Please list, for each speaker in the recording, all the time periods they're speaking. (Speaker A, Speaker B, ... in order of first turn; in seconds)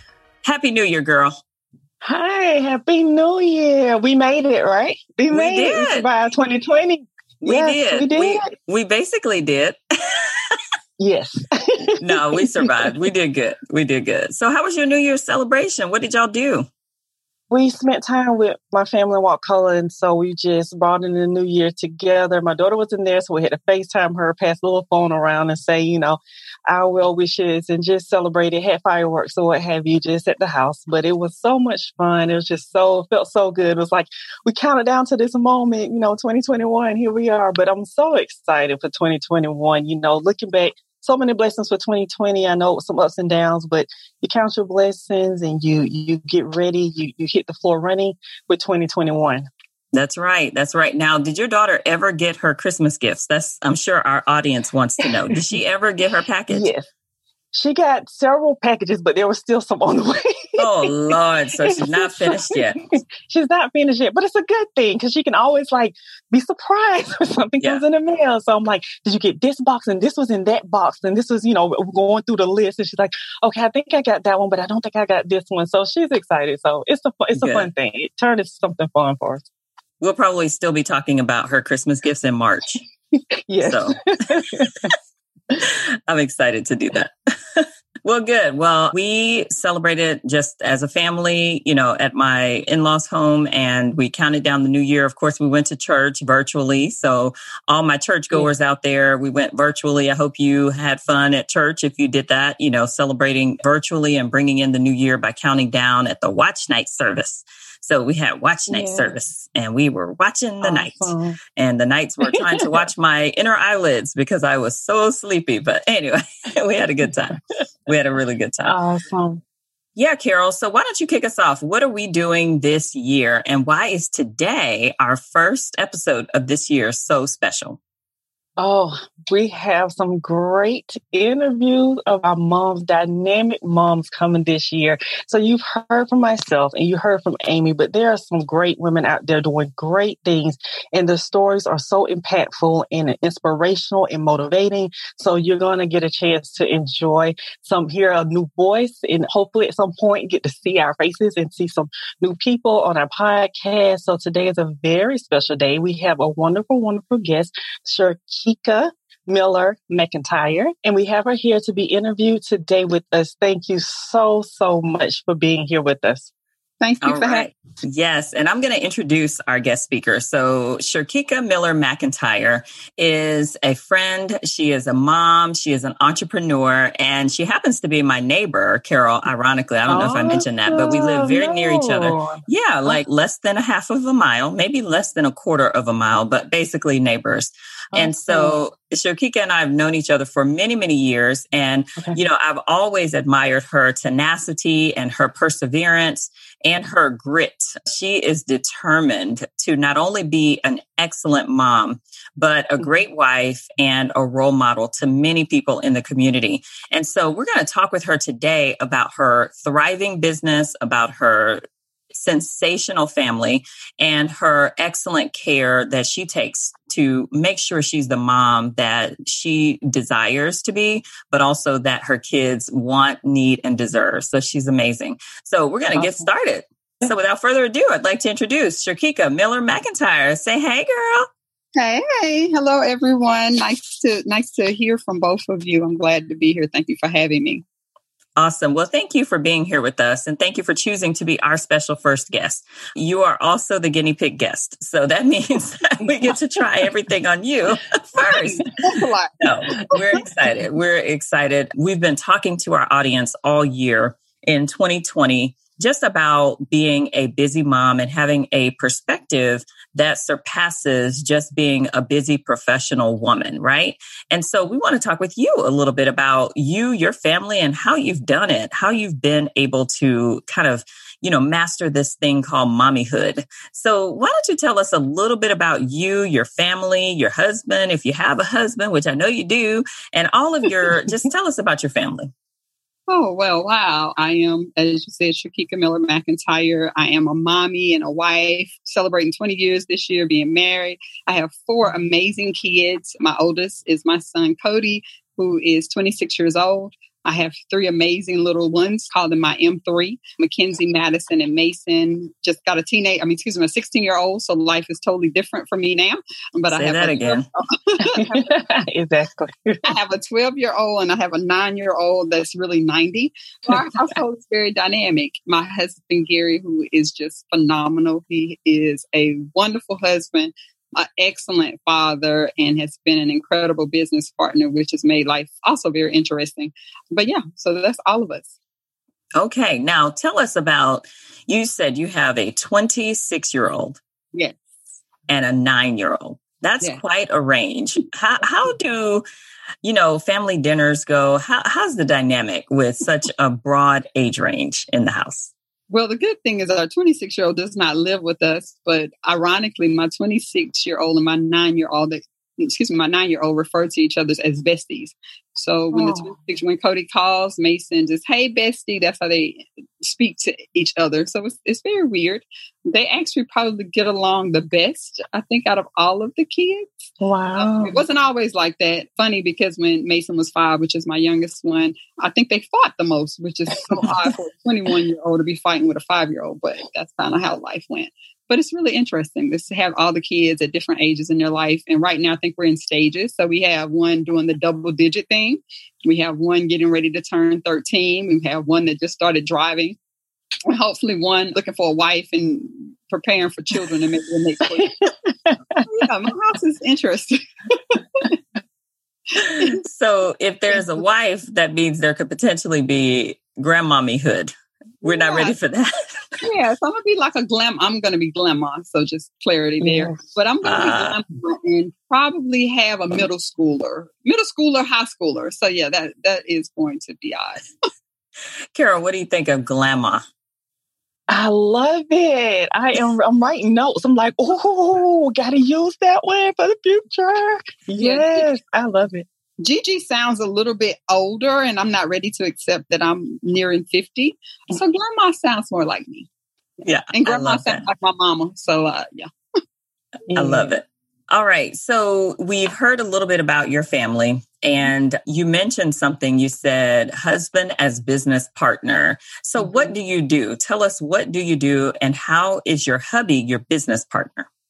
Speaker A: 0.4-1.4, 5.3-6.1, 7.4-10.6, 12.0-16.7, 49.9-56.7, 60.6-62.9, 77.3-77.7, 80.0-82.8, 83.6-84.4, 85.6-118.8, 120.0-127.8, 167.0-211.6, 212.1-231.3, 238.3-248.8, 249.4-282.3, 306.7-307.4, 329.3-334.0, 335.3-339.2, 339.8-345.5, 399.4-404.5, 405.0-406.4, 410.6-411.2, 418.8-420.2, 436.8-437.8, 440.4-454.5
Speaker B: 2.0-8.5, 11.0-12.9, 17.5-49.5, 55.0-55.4, 56.5-56.9, 57.5-60.9, 61.6-79.4, 83.5-84.9, 108.7-109.1, 110.6-111.4, 112.3-112.9, 118.6-119.4, 128.6-166.3, 179.9-183.0, 187.9-188.6, 225.9-226.3, 308.2-309.8, 355.9-356.3, 367.2-368.0, 394.8-395.8, 409.8-410.2, 421.3-429.2, 440.3-440.7
Speaker C: 166.8-167.5, 231.8-237.6, 248.3-249.3, 283.1-308.4, 309.8-328.5, 345.9-390.0, 390.7-394.9, 395.9-398.4, 399.4-399.8, 405.0-405.6, 406.4-417.6, 428.0-428.4, 429.6-436.3, 437.1-439.3